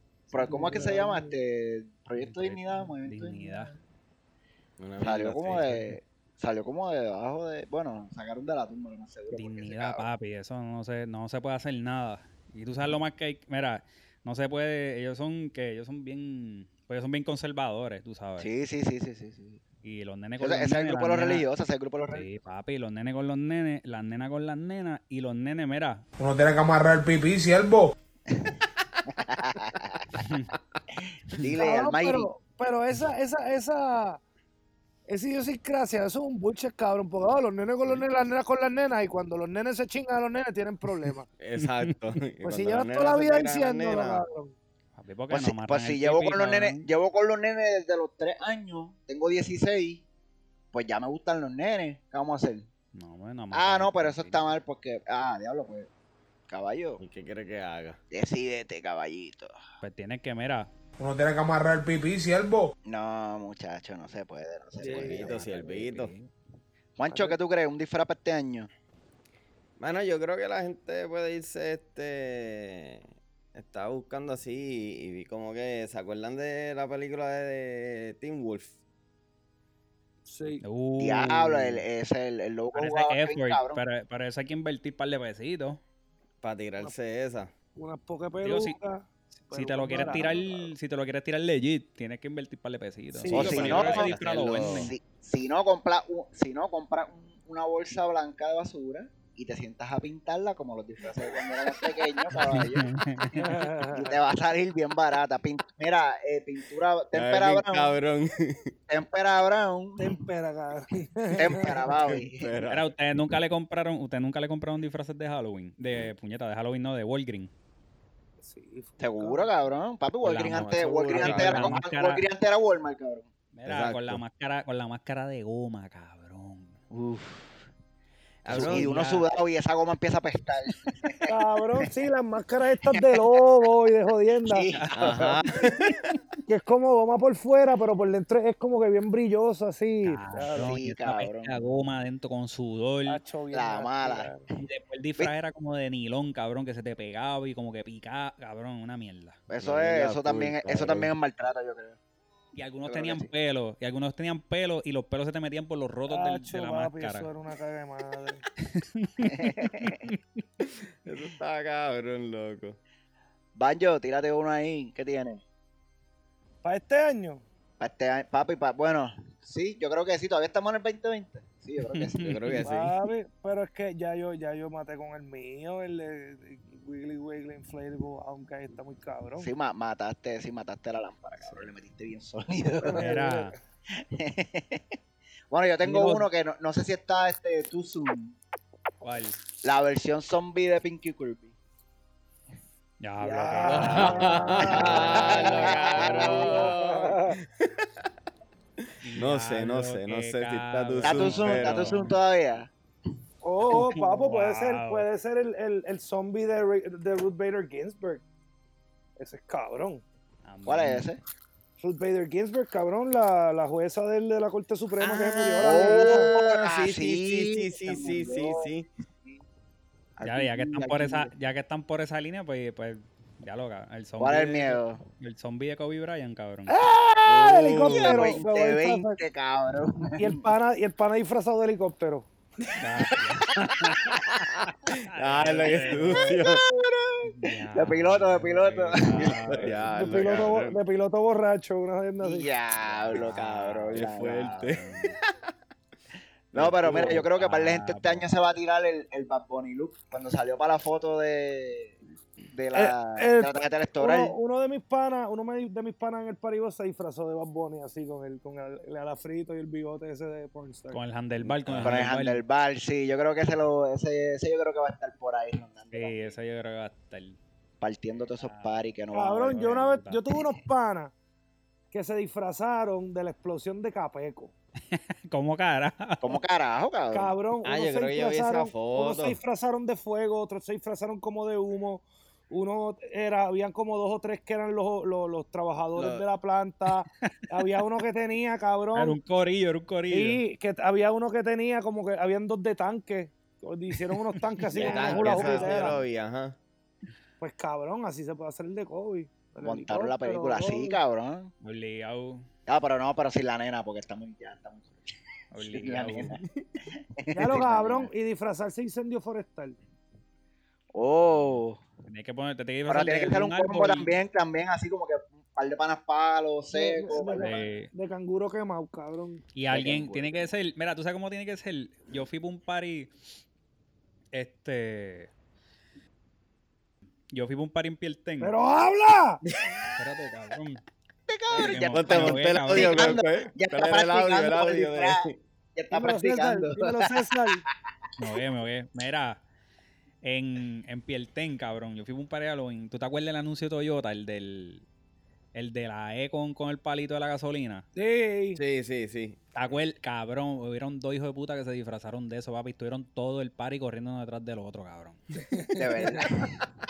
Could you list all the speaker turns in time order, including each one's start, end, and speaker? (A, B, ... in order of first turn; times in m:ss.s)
0:00.3-0:03.8 A
0:00.4-0:01.4 B
0:02.2-0:03.7 C
0:04.8-0:05.8 D
0:05.0-0:10.1 A
0:09.3-0:18.5 C
0:18.4-0:19.6 A
0:19.8-0:21.5 C
0:20.4-0:22.3 A
0:22.1-0:26.0 C
0:26.2-0:27.9 E
0:29.1-0:30.3 A
0:30.2-0:30.5 C
0:31.3-0:32.3 A
0:31.6-0:34.2 B
0:35.1-0:41.3 B
0:41.4-0:44.2 D
0:41.6-0:41.9 C
0:42.4-0:44.6 B
0:45.0-0:46.8 C
0:45.3-0:50.0 A
0:50.7-0:52.7 A
0:52.9-0:54.4 C
0:53.5-0:55.9 A
0:56.5-0:57.0 A
0:57.0-0:58.0 D
0:58.1-0:59.6 A
0:59.8-1:00.7 C
1:01.0-1:02.7 E
1:02.9-1:05.4 A
1:04.8-1:05.1 B
1:04.9-1:06.1 D
1:05.0-1:06.3 C
1:07.0-1:08.7 A
1:07.1-1:07.4 B
1:09.8-1:18.8 D
1:20.3-1:20.6 B
1:20.6-1:21.8 C
1:21.0-1:23.8 A
1:22.7-1:25.8 C
1:26.4-1:27.5 D
1:27.8-1:30.7 B
1:28.4-1:28.8 C
1:29.5-1:34.9 C
1:33.1-1:33.8 B
1:33.3-1:34.9 D
1:33.3-1:48.0 A
1:42.3-1:43.6 C
1:43.4-1:44.1 B
1:47.1-1:48.7 D
1:48.9-1:50.2 A
1:50.0-1:51.9 B
1:51.4-1:52.6 A
1:51.9-1:52.9 D
1:52.7-1:57.5 C
1:58.4-1:59.5 B
1:59.0-2:03.3 A
2:00.2-2:02.2 C
2:00.5-2:01.8 D
2:03.5-2:06.8 C
2:03.7-2:04.2 D
2:06.9-2:07.7 A
2:08.4-2:08.9 D
2:08.5-2:11.3 A
2:08.5-2:09.3 C
2:11.3-2:14.7 B
2:14.5-2:15.5 A
2:14.8-2:15.2 C
2:14.9-2:16.0 D
2:16.5-2:20.8 B
2:20.0-2:23.2 C
2:20.6-2:21.5 A
2:23.1-2:24.4 B
2:23.5-2:24.6 A
2:24.6-2:29.4 C
2:29.5-2:32.0 A
2:29.6-2:31.1 D
2:32.6-2:37.3 C
2:32.9-2:33.3 A
2:36.1-2:38.4 B
2:38.6-2:40.4 C
2:39.2-2:40.0 A
2:41.0-2:42.8 D
2:43.6-2:45.4 A
2:46.6-2:47.4 B
2:47.8-2:52.3 A
2:51.9-2:52.7 C
2:52.2-2:52.9 D
2:52.6-2:59.5 B
2:59.4-3:03.2 A
3:01.4-3:01.7 C
3:02.8-3:03.6 B
3:02.9-3:03.5 C
3:04.0-3:04.9 A
3:05.5-3:08.4 A
3:05.8-3:06.3 C
3:09.0-3:09.4 C
3:09.6-3:11.5 A
3:13.0-3:16.7 C
3:13.2-3:15.2 B
3:13.7-3:18.0 D
3:14.8-3:16.6 A
3:16.1-3:17.4 B
3:18.8-3:22.1 D
3:19.0-3:22.2 C
3:21.0-3:22.7 A
3:23.4-3:28.2 B
3:23.7-3:25.1 C
3:29.2-3:30.0 B
3:30.4-3:31.1 C
3:30.7-3:31.2 A
3:31.8-3:36.3 B
3:35.1-3:38.9 D
3:35.6-3:38.7 A
3:40.2-3:41.3 A
3:40.2-3:46.7 C
3:44.2-3:45.0 A
3:46.7-3:50.4 A
3:47.3-3:48.4 D
3:47.4-3:49.2 B
3:50.2-3:52.3 B
3:52.8-3:56.4 C
3:53.6-3:53.9 A
3:54.9-3:56.6 D
3:55.6-3:59.8 A
3:57.2-3:59.9 C
3:59.2-4:00.8 D
3:59.9-4:02.5 B
4:02.2-4:04.9 A
4:02.8-4:04.1 C
4:03.9-4:04.9 D
4:04.7-4:05.2 C
4:06.5-4:07.2 D
4:06.5-4:12.0 A
4:07.0-4:08.3 C
4:12.5-4:14.4 A
4:12.7-4:21.0 B
4:20.9-4:22.4 C
4:21.7-4:22.1 D
4:21.8-4:26.4 A
4:25.9-4:27.4 C
4:27.8-4:30.4 A
4:28.4-4:28.8 C
4:29.1-4:31.1 B
4:29.5-4:30.2 C
4:31.9-4:34.5 B
4:34.9-4:36.4 C
4:36.2-4:37.3 A
4:37.1-4:49.2 B
4:37.6-4:39.4 D
4:46.0-4:46.2 D
4:49.0-4:50.4 C
4:50.1-4:56.0 B
4:54.7-4:56.6 D
4:54.8-4:55.6 A
4:54.8-4:55.9 C
4:57.4-5:01.0 B
4:59.6-5:01.5 A
5:01.6-5:02.5 C
5:02.7-5:05.0 A
5:05.5-5:06.3 C
5:05.6-5:06.4 A
5:07.2-5:08.1 A
5:07.3-5:09.8 B
5:10.9-5:11.8 A
5:11.2-5:14.2 C
5:12.9-5:17.7 A
5:16.7-5:19.4 B
5:17.4-5:17.9 C
5:19.6-5:23.1 C
5:19.7-5:20.5 A
5:24.3-5:25.3 C
5:27.3-5:28.5 C
5:28.4-5:29.4 B
5:30.0-5:30.8 C
5:31.3-5:35.2 A
5:31.5-5:33.2 C
5:31.6-5:35.4 D
5:35.8-5:37.6 A
5:35.9-5:37.6 B
5:38.2-5:39.4 C
5:40.2-5:44.9 C
5:45.5-5:47.9 C
5:48.0-5:48.6 B
5:48.6-5:49.4 D
5:49.6-5:55.2 C
5:55.5-5:56.2 B
5:55.7-5:56.6 A